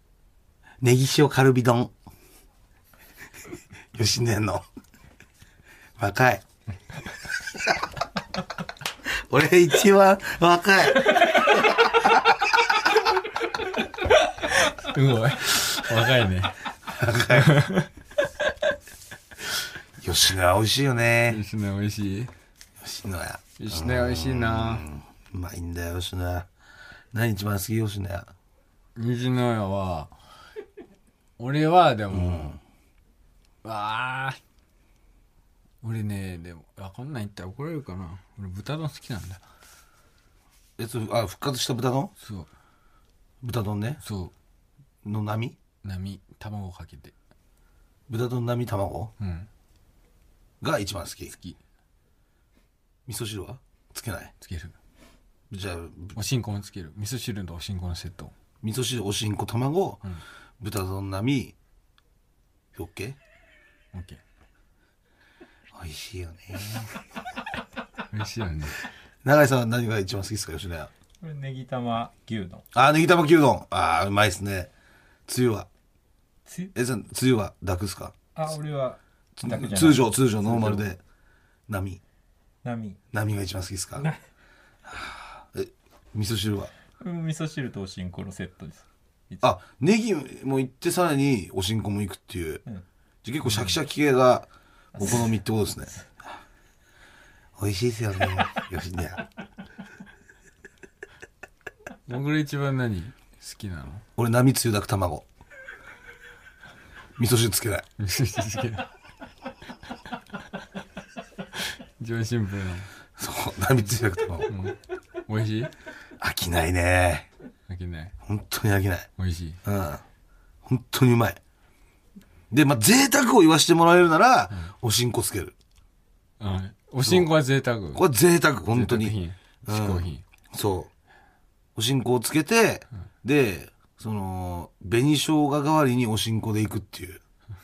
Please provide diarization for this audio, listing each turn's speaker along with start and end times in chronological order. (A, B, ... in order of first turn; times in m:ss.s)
0:00.8-0:01.9 A
0:03.9-0:04.6 A
0:06.0-0:06.4 A
0:07.5-0:07.8 A
0:09.3-0:12.6 A
0:14.0-0:16.6 B
0:16.9-0:17.6 A
0:17.3-0:17.9 B
0:20.0-0:21.4 A
0:21.3-0:22.3 B
0:22.8-0:26.5 A
0:23.6-0:24.9 B
0:27.1-0:28.3 A
0:29.0-0:30.1 B
0:31.4-0:32.6 B
0:32.1-0:32.6 A
0:33.6-0:34.4 B
0:35.8-0:39.4 B
0:40.8-0:42.1 A
0:42.2-0:42.5 B
0:43.4-0:44.0 A
0:44.0-0:44.3 B
0:45.0-0:45.6 A
0:45.8-0:47.1 B
0:48.1-0:49.1 A
0:49.2-0:49.5 B
0:50.6-0:51.3 A
0:51.3-0:51.6 B
0:53.1-0:54.3 A
0:54.4-0:54.7 B
0:55.5-0:56.2 A
0:56.1-0:58.3 B
0:58.6-1:00.0 A
1:00.6-1:01.6 A
1:02.7-1:03.2 A
1:03.9-1:04.2 B
1:05.7-1:06.9 A
1:08.1-1:08.8 B
1:09.2-1:10.9 A
1:11.2-1:12.6 C
1:12.7-1:14.7 A
1:15.3-1:15.7 A
1:16.7-1:18.1 A
1:18.4-1:20.8 C
1:19.4-1:21.0 A
1:21.7-1:22.0 A
1:22.6-1:23.0 C
1:23.1-1:24.1 A
1:24.9-1:26.7 A
1:27.0-1:29.5 C
1:29.4-1:32.6 A
1:33.2-1:35.9 A
1:33.4-1:33.7 B
1:37.6-1:39.3 A
1:42.1-1:44.0 B
1:44.2-1:45.2 A
1:47.2-1:47.9 A
1:48.0-1:48.9 B
1:51.6-1:52.9 B
1:53.2-1:54.6 A
1:54.5-1:55.7 B
1:56.2-1:57.3 A
1:57.7-1:58.1 B
1:58.2-1:59.1 A
1:59.2-1:59.6 B
1:59.6-2:00.0 A
2:00.6-2:01.4 A
2:02.5-2:05.6 A
2:06.4-2:08.0 B
2:07.0-2:07.3 A
2:07.9-2:10.9 A
2:08.7-2:10.2 B
2:11.8-2:17.2 A